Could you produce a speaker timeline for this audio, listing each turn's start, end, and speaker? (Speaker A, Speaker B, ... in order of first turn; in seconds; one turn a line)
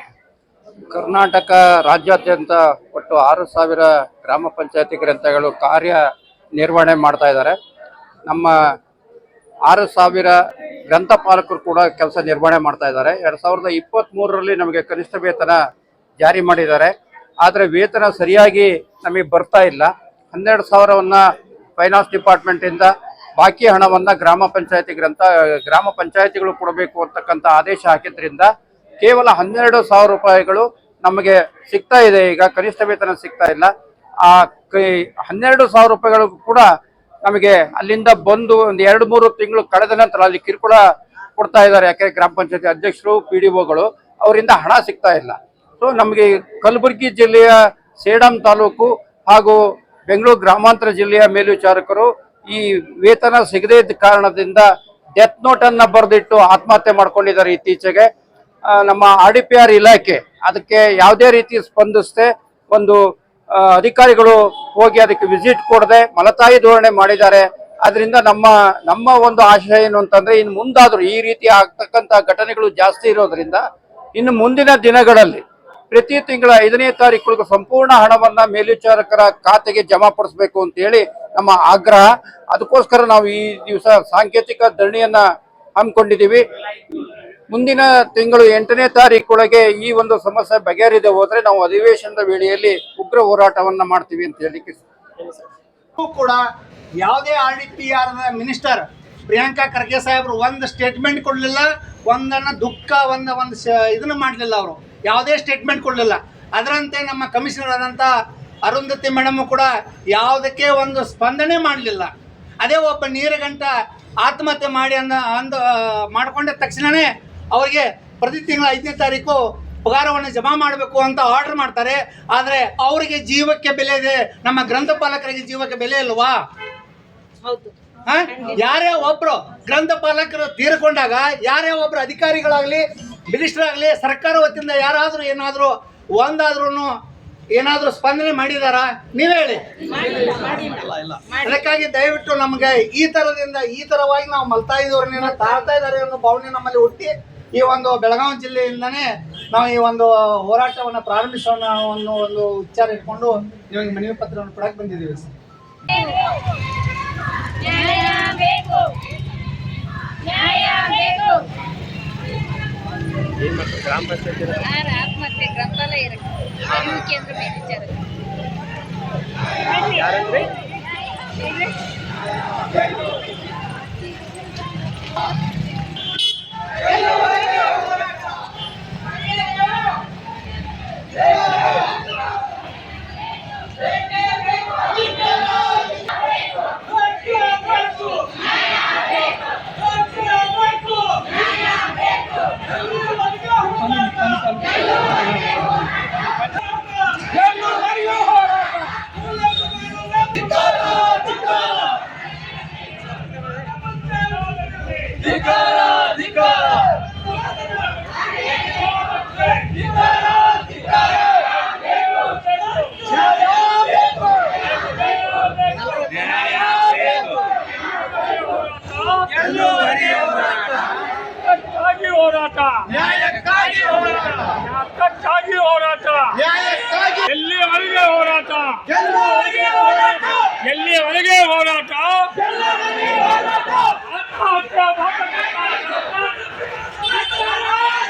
Speaker A: 0.9-6.0
Speaker A: 6.6-7.5
Speaker A: 8.3-8.5
Speaker A: 9.7-10.3
Speaker A: 10.9-15.6
Speaker A: 16.2-21.2
Speaker A: 21.8-28.5
Speaker A: 29.0-33.7
Speaker A: 34.2-36.6
Speaker A: 37.2-40.8
Speaker A: 41.4-49.6
Speaker A: 50.1-54.6
Speaker A: 55.1-58.1
Speaker A: 58.7-63.0
Speaker A: 63.5-73.6
Speaker A: 74.2-85.2
Speaker A: 85.8-86.4
Speaker A: 87.5-94.8
Speaker B: 95.2-95.5
Speaker C: 96.0-96.4
Speaker C: 97.0-108.1
Speaker C: 108.6-112.1
Speaker C: 112.6-113.7
Speaker C: 114.2-126.3
Speaker D: 127.5-127.7
Speaker C: 128.1-136.9
Speaker C: 137.6-139.6
Speaker C: 140.2-140.8
Speaker C: 141.3-155.3
Speaker D: 155.9-156.3
Speaker D: 157.6-159.0
Speaker D: 160.2-161.5
Speaker B: 163.4-164.9
Speaker D: 164.7-166.5
Speaker B: 166.7-167.1
Speaker D: 167.1-167.9
Speaker B: 169.7-170.6
Speaker C: 193.9-194.5
Speaker E: 215.0-216.0
Speaker E: 216.8-217.2
Speaker E: 218.2-220.3
Speaker E: 221.4-232.4
Speaker A: 221.6-222.1
Speaker A: 225.2-225.5
Speaker E: 234.0-236.4